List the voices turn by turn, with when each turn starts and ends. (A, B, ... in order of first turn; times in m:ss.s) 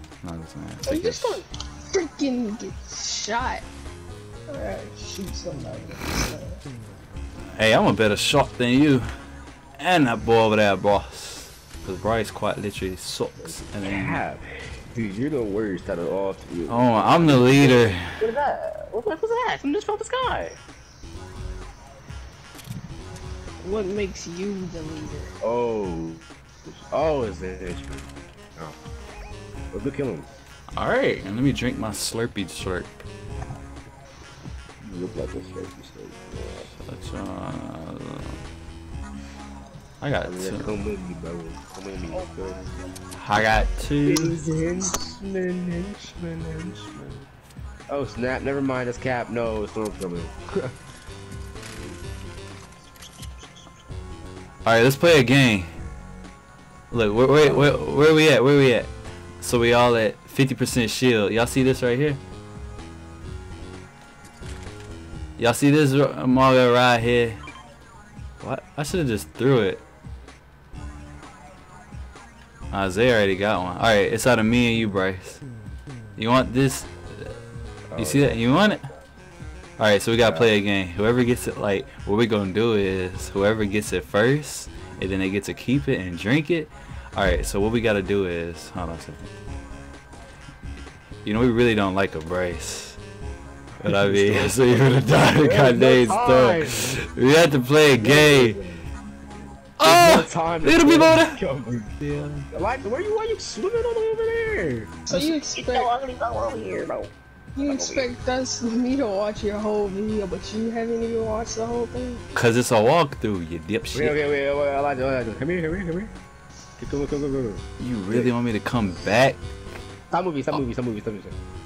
0:00.2-0:01.4 A
0:00.8-0:03.6 B
0:04.5-0:06.6 B
0:07.6-0:09.1 A
0:09.8-0:14.2 A
0:13.8-0:20.6 C
0:16.7-0:18.1 A
0:23.6-0:25.3 B
0:25.4-0:28.8 C
0:29.7-0:30.3 C
0:30.8-0:33.0 A
0:34.8-0:36.7 C
0:36.7-0:38.4 A
0:40.0-0:40.8 A
0:40.2-0:42.7 C
0:43.1-0:44.4 A
0:44.0-0:47.3 C
0:47.9-0:50.7 C
0:54.6-0:55.7 A
0:56.9-1:02.2 A
0:57.4-0:57.8 C
1:05.4-1:07.4 A
1:08.4-1:09.8 A
1:12.7-1:15.4 A
1:16.2-1:17.4 A
1:17.9-1:19.0 C
1:18.0-1:18.8 A
1:19.8-1:29.3 A
1:31.2-1:33.0 A
1:33.8-1:38.6 A
1:33.8-1:37.0 C
1:38.0-1:38.8 C
1:39.8-1:41.4 A
1:39.8-1:41.9 C
1:42.0-1:42.4 A
1:42.5-1:47.1 C
1:45.0-1:45.9 B
1:47.6-1:52.2 B
1:47.6-1:48.1 C
1:52.3-1:54.2 A
1:53.9-1:56.1 C
1:56.8-1:58.3 C
1:57.8-1:59.4 A
2:00.1-2:01.4 C